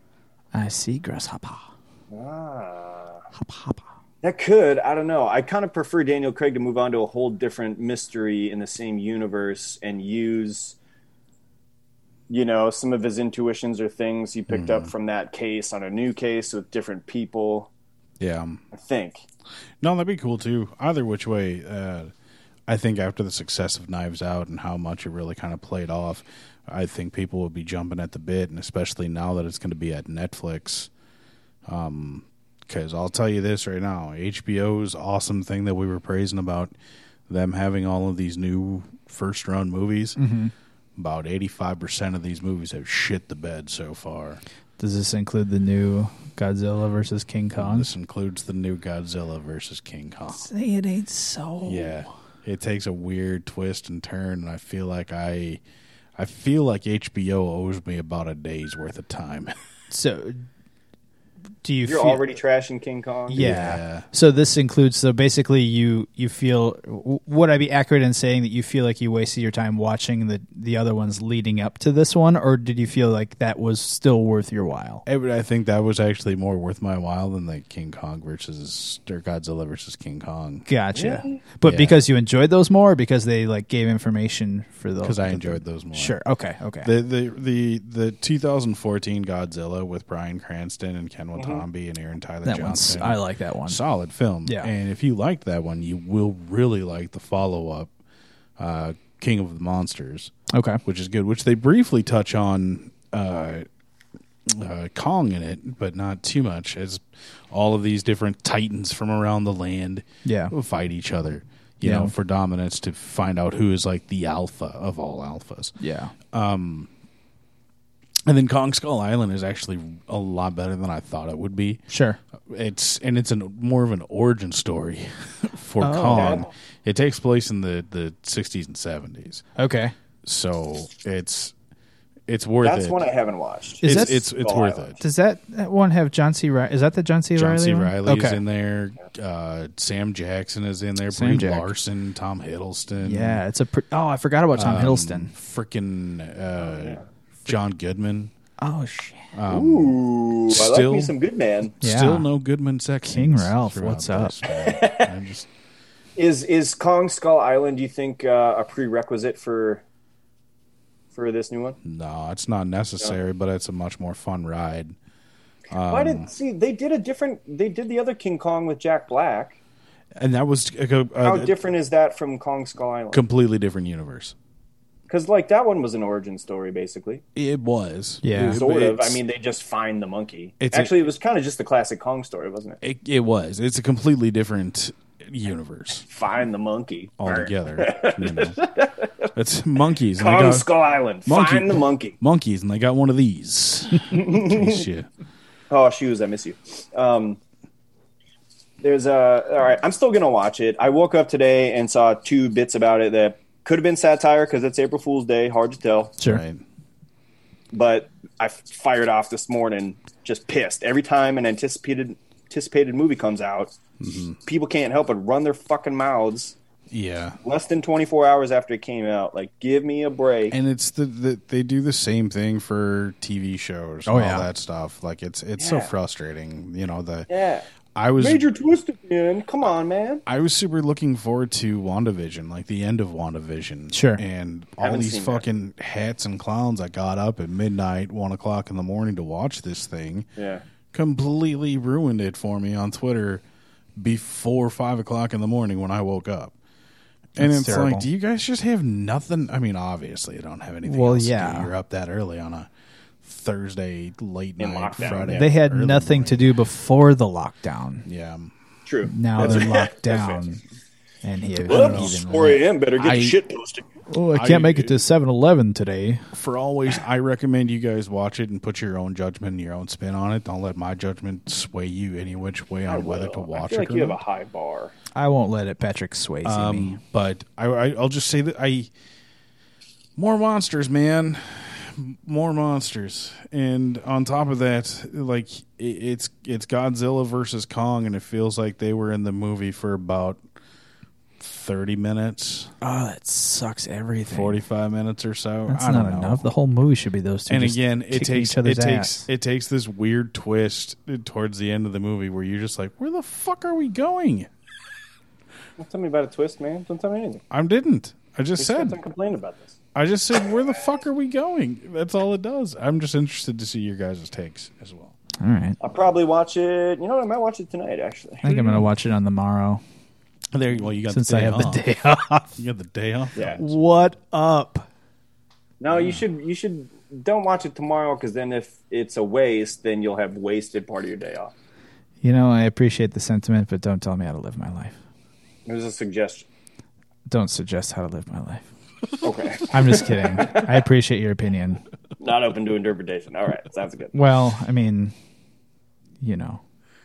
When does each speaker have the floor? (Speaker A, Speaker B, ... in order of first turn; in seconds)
Speaker A: 0.5-1.7, 3.4-3.8, 40.2-40.5, 44.8-47.9, 50.3-51.9, 59.9-60.5, 61.6-62.2, 63.3-75.0, 80.7-86.9, 92.5-93.8, 94.5-94.7, 100.5-100.8, 110.2-110.5, 111.8-112.1, 115.8-116.1, 121.9-122.2, 125.8-126.5, 129.6-129.9, 133.8-134.2, 135.0-138.4, 141.1-141.8, 143.0-145.3, 148.6-149.3, 151.8-152.3, 153.1-154.4, 178.2-178.6, 224.1-224.5, 233.9-234.2, 247.4-248.1, 250.8-251.7, 255.2-258.1, 259.1-260.6, 261.2-262.6, 264.1-266.3, 275.1-277.0, 292.8-294.6, 295.7-299.3, 315.4-315.8, 318.4-319.8, 321.1-322.6, 323.6-324.9, 332.2-335.0, 337.3-338.7, 339.7-341.8, 344.1-345.1, 346.2-346.6
Speaker B: 2.1-3.2, 4.2-10.8, 12.3-17.7, 18.7-19.2, 61.9-63.4, 81.0-81.4, 91.4-91.6, 126.1-126.5, 132.6-135.0, 146.6-147.0, 149.5-151.8, 154.5-155.1, 156.2-159.8, 161.1-161.8, 165.9-169.6, 171.2-173.2, 175.1-177.2, 178.4-182.8, 186.1-189.1, 190.2-192.2, 194.1-194.9, 195.7-197.4, 198.8-206.2, 207.7-213.7, 214.5-216.6, 217.4-220.6, 225.6-225.9, 227.3-227.7, 228.2-230.2, 234.8-235.4, 240.4-240.6, 254.6-255.5, 258.9-260.5, 261.6-263.9, 272.9-274.9, 305.8-307.4, 308.6-309.8, 315.8-318.8, 323.4-323.6, 325.8-331.5, 335.7-336.5, 339.2-340.8, 342.2-344.1
Speaker C: 14.5-14.9, 18.2-18.6, 19.8-22.1, 22.7-30.9, 31.7-36.7, 37.3-40.2, 41.0-44.4, 47.6-50.5, 51.6-55.6, 56.2-59.6, 63.4-64.1, 75.0-80.7, 81.6-82.0, 85.0-86.2, 86.8-97.9, 98.6-100.3, 100.8-103.7, 104.5-115.8, 116.3-116.9, 118.3-121.9, 122.4-129.4, 130.2-131.5, 132.3-133.1, 133.8-135.0, 137.3-143.4, 144.5-148.3, 149.3-151.2, 151.8-155.5, 161.8-165.0, 165.7-166.3, 170.2-171.6, 173.1-174.3, 177.3-179.2, 180.6-180.9, 182.8-186.1, 187.2-188.6, 189.3-190.7, 191.2-195.1, 206.2-206.6, 214.0-214.4, 216.9-217.4, 220.5-227.3, 227.9-228.4, 230.3-240.3, 240.9-243.4, 244.0-246.6, 247.4-252.7, 253.2-256.5, 258.1-258.5, 259.4-259.8, 261.6-262.2, 263.0-263.4, 264.3-265.0, 266.3-274.2, 276.4-278.9, 280.2-290.4, 291.4-292.7, 294.3-296.5, 297.5-304.5, 307.5-309.0, 309.9-315.1, 320.5-321.9, 322.6-323.8, 325.9-326.2